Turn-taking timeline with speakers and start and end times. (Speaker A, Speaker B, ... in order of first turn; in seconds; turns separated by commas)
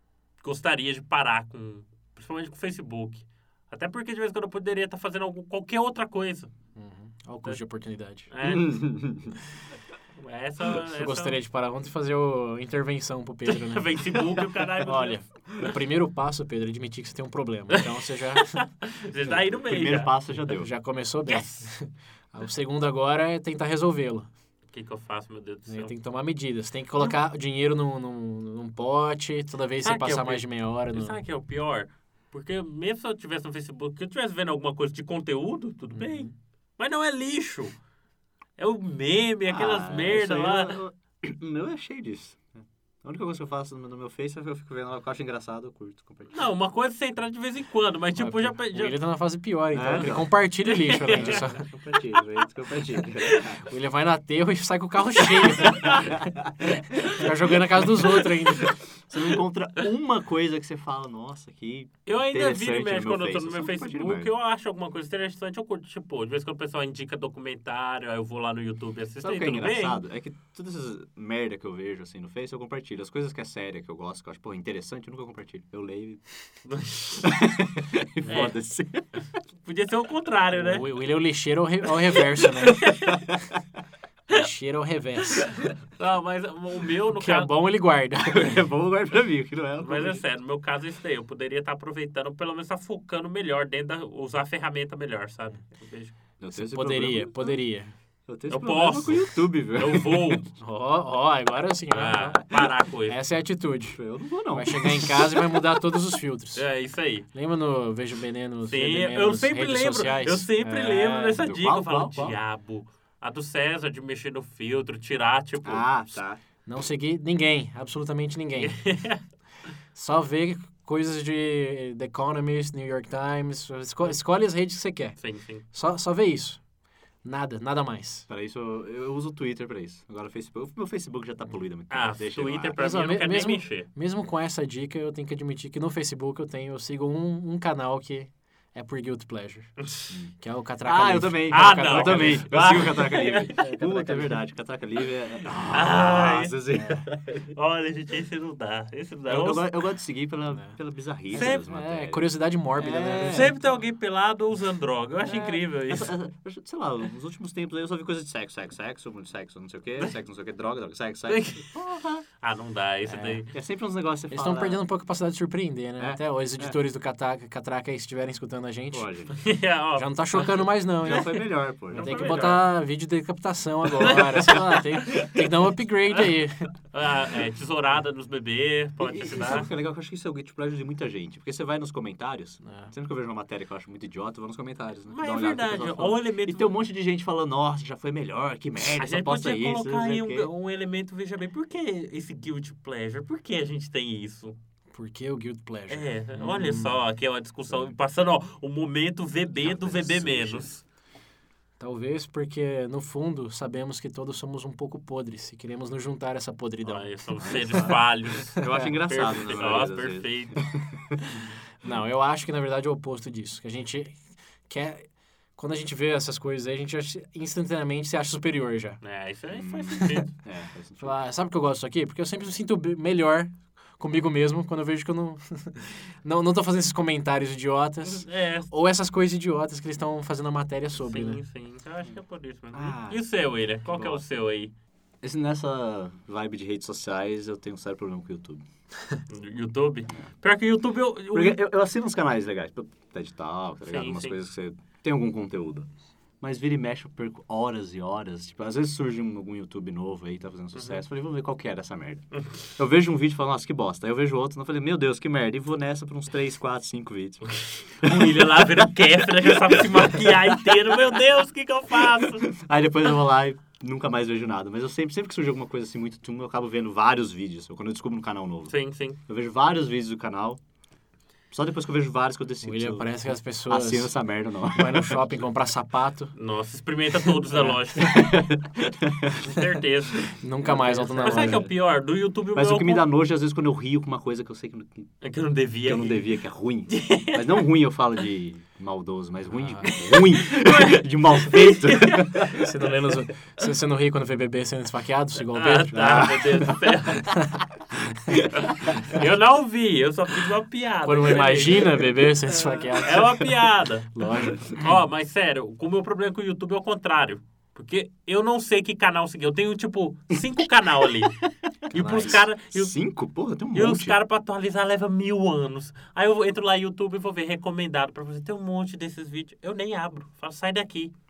Speaker A: 0.4-6.5, Speaker B: 6.8-8.3, Speaker A: 8.3-8.8, Speaker C: 8.4-9.4, Speaker A: 10.2-11.4, Speaker B: 11.0-18.5, Speaker A: 13.5-15.2, Speaker C: 14.9-15.7, Speaker A: 18.4-20.1, Speaker C: 19.2-20.7, Speaker B: 20.5-24.3, Speaker A: 21.3-21.7, Speaker A: 24.7-25.9, Speaker B: 25.7-31.2, Speaker A: 29.8-37.8, Speaker B: 35.9-36.3, Speaker A: 38.6-40.8, Speaker C: 39.5-46.4, Speaker A: 46.3-49.0, Speaker B: 48.2-51.7, Speaker C: 49.7-53.6, Speaker A: 50.6-51.5, Speaker A: 53.2-53.6, Speaker B: 53.6-56.2, Speaker A: 55.3-56.1, Speaker C: 56.1-56.4, Speaker A: 57.0-57.3, Speaker B: 57.0-58.8, Speaker A: 58.0-59.3, Speaker C: 59.1-64.3, Speaker A: 62.1-70.0, Speaker C: 69.2-76.2, Speaker A: 76.7-77.3, Speaker C: 77.2-79.2, Speaker A: 78.2-78.6, Speaker A: 79.6-80.9, Speaker B: 80.5-82.9, Speaker A: 82.6-83.3, Speaker B: 84.3-85.5, Speaker A: 86.0-87.5, Speaker B: 87.2-88.6, Speaker C: 88.2-90.2, Speaker A: 89.8-96.2, Speaker C: 96.4-97.6, Speaker B: 96.5-97.9, Speaker C: 98.3-100.4, Speaker A: 98.5-100.5, Speaker B: 100.6-102.4, Speaker A: 101.9-103.2, Speaker B: 103.1-104.0, Speaker C: 103.9-105.2, Speaker B: 104.5-106.7, Speaker A: 106.5-107.3, Speaker B: 107.3-111.4, Speaker A: 108.7-116.0, Speaker C: 111.4-112.4, Speaker C: 115.6-116.4, Speaker B: 116.7-118.8, Speaker A: 118.5-119.2, Speaker B: 119.9-126.6, Speaker A: 125.2-125.7, Speaker B: 127.2-128.3, Speaker C: 128.3-132.8, Speaker A: 131.9-133.9, Speaker B: 132.8-139.7, Speaker B: 140.4-144.4, Speaker C: 140.8-147.2, Speaker A: 141.5-143.6, Speaker A: 145.6-149.9, Speaker C: 149.3-153.7, Speaker B: 150.5-150.8, Speaker A: 151.3-151.7, Speaker B: 151.3-153.8, Speaker A: 153.3-156.1, Speaker C: 155.2-162.2, Speaker A: 161.3-161.8, Speaker A: 162.4-163.5, Speaker B: 163.1-163.4, Speaker C: 163.5-164.8, Speaker B: 164.3-169.1, Speaker C: 166.0-166.8, Speaker C: 168.9-169.6, Speaker A: 169.3-170.7, Speaker B: 170.0-176.7, Speaker C: 171.0-172.6, Speaker A: 171.9-172.7, Speaker A: 174.0-175.3, Speaker A: 176.9-179.7, Speaker C: 179.0-190.5, Speaker B: 182.6-182.9, Speaker A: 185.1-186.8, Speaker A: 189.0-194.6, Speaker B: 194.9-197.0, Speaker A: 195.9-200.8, Speaker C: 199.6-200.7, Speaker B: 201.8-207.9, Speaker A: 206.8-210.6, Speaker C: 207.4-211.2, Speaker B: 208.7-209.0, Speaker B: 211.8-219.0, Speaker A: 219.0-220.4, Speaker C: 219.5-221.2, Speaker B: 221.0-231.4, Speaker A: 228.0-228.7, Speaker A: 231.0-234.7, Speaker C: 232.7-233.2, Speaker C: 233.8-234.2, Speaker C: 235.2-238.6, Speaker A: 239.3-241.6, Speaker C: 241.3-245.9, Speaker A: 243.9-244.4, Speaker C: 246.4-258.7, Speaker A: 250.8-251.0, Speaker A: 258.0-262.4, Speaker C: 262.2-268.8, Speaker A: 268.7-269.2, Speaker C: 269.3-270.6, Speaker C: 271.5-275.2, Speaker B: 272.6-274.1, Speaker B: 274.7-276.3, Speaker A: 276.4-278.4, Speaker C: 277.9-279.6, Speaker A: 279.4-283.1, Speaker B: 280.4-281.7, Speaker C: 281.2-281.7, Speaker C: 282.5-285.1, Speaker A: 285.2-286.3, Speaker C: 285.8-292.7, Speaker A: 286.9-287.7, Speaker B: 289.5-289.9, Speaker A: 289.9-292.4, Speaker B: 292.5-296.3, Speaker A: 295.5-297.4, Speaker C: 295.9-296.8, Speaker A: 298.6-302.2, Speaker B: 301.0-304.9, Speaker C: 302.5-303.0, Speaker A: 303.0-304.1, Speaker A: 304.6-311.3, Speaker C: 310.3-314.2, Speaker A: 311.9-312.9, Speaker B: 311.9-312.4, Speaker A: 313.7-321.1